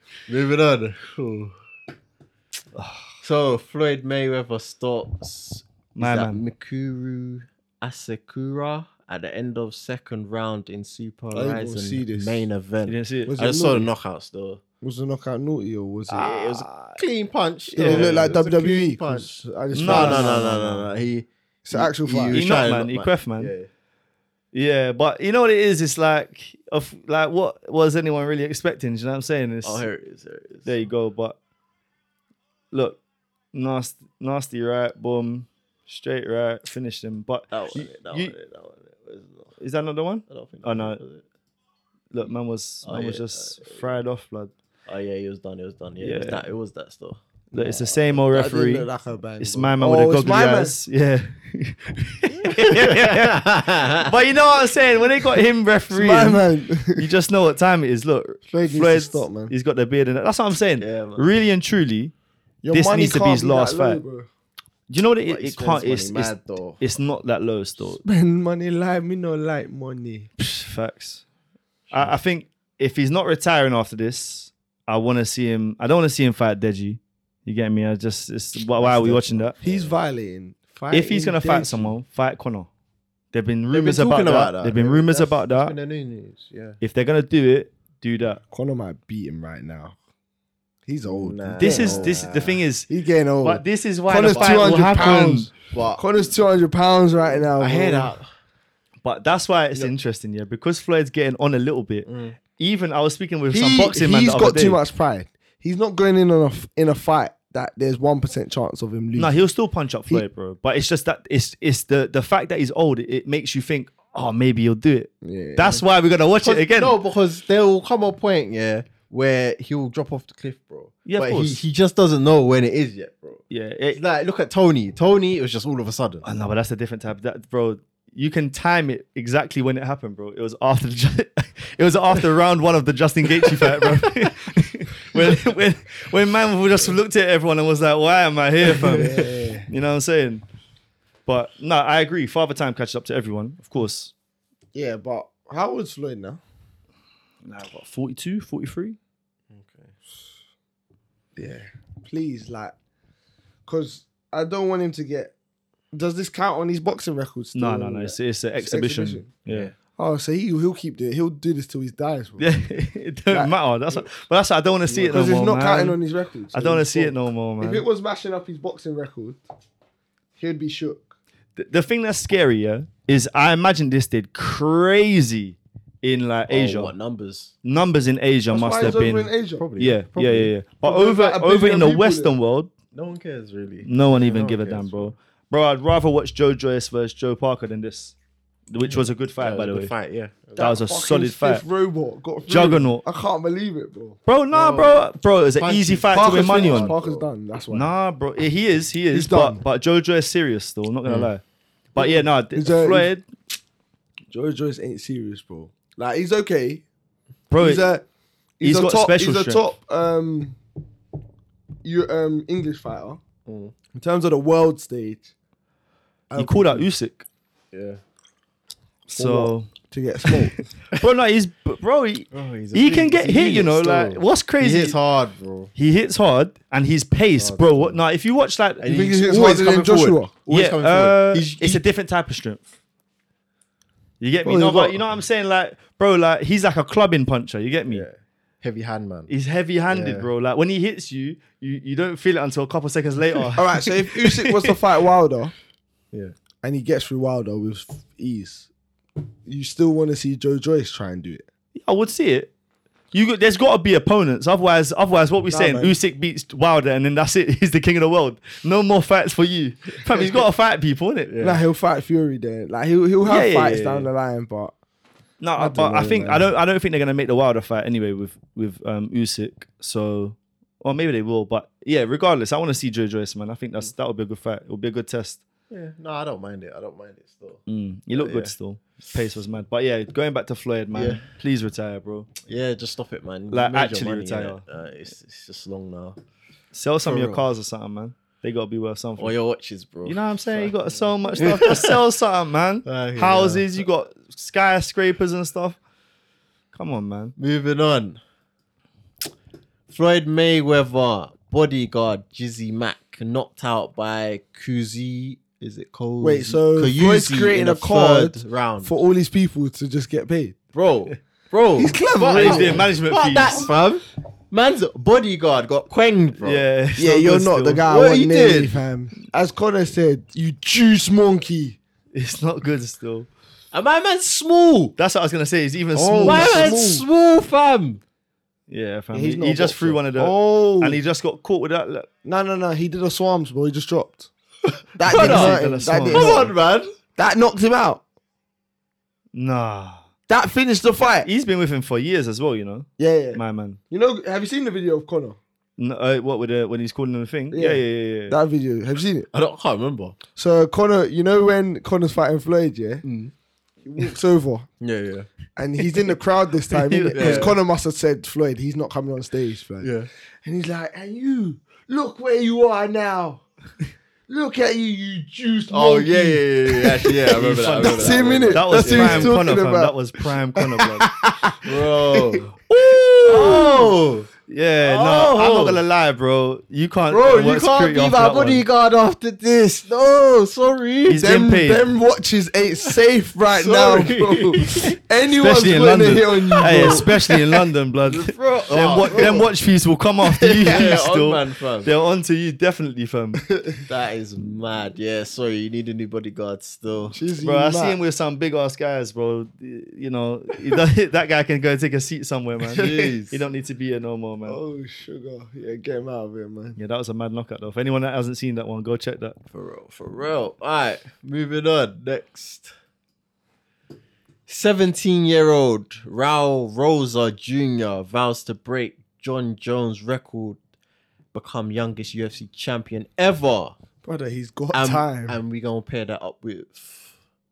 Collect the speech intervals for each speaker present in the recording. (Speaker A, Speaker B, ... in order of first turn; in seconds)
Speaker A: 0.3-1.5, 3.2-14.6, 16.1-23.7, 29.6-30.9, 37.5-39.5, 40.3-41.2, 42.8-43.8, 44.9-47.2, 52.3-54.1, 60.8-61.3, 65.2-66.8, 78.8-79.9, 83.7-86.8, 91.0-92.6, 94.3-96.0, 97.3-98.3, 102.0-102.4, 115.7-126.2, 149.5-149.9, 159.5-159.7, 164.9-165.2, 176.5-177.5, 178.8-179.0, 179.6-180.5, 182.9-185.1, 188.8-190.7, 194.5-195.0, 195.6-197.2, 201.1-201.3, 213.4-213.7, 217.7-218.0, 222.3-225.7, 227.4-228.0, 228.8-231.8, 237.9-239.3, 239.9-240.3, 261.3-261.6, 275.7-278.5, 280.9-281.2, 282.4-286.2, 287.0-287.4, 289.2-292.0, 292.8-293.8, 297.4-298.2, 299.9-308.9, 310.7-316.6, 317.9-318.8, 323.7-324.9, 325.9-328.0, 335.0-336.9, 349.3-350.2, 353.0-353.3, 354.8-355.3, 357.1-357.6, 359.8-360.1, 365.7-369.4, 371.6-374.3, 374.8-375.8, 377.1-381.2, 383.5-385.0, 386.5-387.3, 388.1-389.5, 390.3-391.9, 393.8-397.2, 402.6-403.4, 409.5-412.7, 414.5-420.6, 421.3-423.8, 424.7-427.1
Speaker B: 2.7-3.1, 5.9-6.4, 12.8-13.3, 16.2-16.6, 17.8-18.3, 19.7-20.9, 22.3-23.5, 24.5-29.9, 30.6-31.4, 32.7-33.0, 33.5-38.3, 39.6-41.0, 42.1-44.5, 46.0-46.4, 47.5-48.9, 49.4-62.1, 62.7-64.0, 64.9-68.0, 70.4-71.2, 71.9-79.5, 80.9-82.7, 83.3-85.7, 86.8-88.4, 91.6-92.9, 93.4-95.5, 99.0-104.8, 109.2-117.0, 121.0-121.6, 123.5-124.0, 126.2-140.4, 141.2-144.1, 147.4-149.0, 157.5-159.7, 162.4-166.0, 166.5-167.8, 171.6-176.9, 177.6-182.7, 183.8-188.1, 188.7-189.9, 190.6-191.6, 192.5-193.0, 194.2-196.9, 197.7-201.4, 201.9-203.2, 207.5-207.9, 208.6-209.6, 216.3-217.2, 219.1-219.7, 220.2-225.0, 225.7-228.9, 230.5-232.6, 234.2-238.0, 239.3-244.8, 251.8-252.5, 253.1-261.3, 263.2-264.1, 265.4-275.4, 277.7-282.3, 283.5-284.6, 286.7-289.3, 290.0-295.8, 296.7-297.3, 312.3-313.7, 316.4-317.9, 322.1-323.3, 325.0-326.8, 328.7-332.1, 335.1-336.5, 339.3-340.0, 341.2-343.8, 345.8-348.4, 356.7-357.5, 367.3-371.1, 372.4-373.9, 374.5-378.6, 381.1-381.9, 385.3-393.5, 397.4-404.6, 406.8-409.4
Speaker C: 11.3-12.5, 13.3-13.9, 14.8-16.5, 17.7-20.7, 21.6-22.4, 47.5-50.7, 55.9-57.1, 58.5-59.5, 62.6-64.3, 68.0-70.3, 79.1-81.9, 88.5-89.9, 90.8-92.2, 92.9-98.1, 103.5-109.4, 115.2-115.8, 138.8-139.7, 144.7-146.4, 151.3-152.7, 153.7-155.3, 155.9-159.3, 160.0-162.4, 163.3-164.0, 165.0-169.4, 170.3-171.2, 178.5-179.6, 180.8-182.3, 190.6-194.2, 196.1-197.9, 199.1-199.6, 201.9-203.1, 204.3-206.8, 207.6-208.1, 208.6-210.6, 211.8-213.2, 213.9-215.3, 216.3-216.9, 219.2-220.6, 228.8-230.3, 234.4-235.0, 243.6-245.5, 246.6-248.7, 249.4-251.4, 255.5-255.9, 261.4-264.7, 265.6-266.5, 306.2-310.6, 311.8-312.8, 317.0-321.8, 326.0-327.0, 329.1-331.0, 332.2-334.3, 334.9-336.5, 337.2-338.0, 340.3-341.3, 343.0-345.4, 347.5-349.3, 350.4-353.0, 353.8-354.7, 355.6-359.9, 360.4-363.4, 364.3-367.2, 367.8-370.0, 370.8-371.6, 373.3-373.6, 381.1-387.1, 389.1-389.4, 397.1-398.0, 404.4-406.8, 424.0-425.4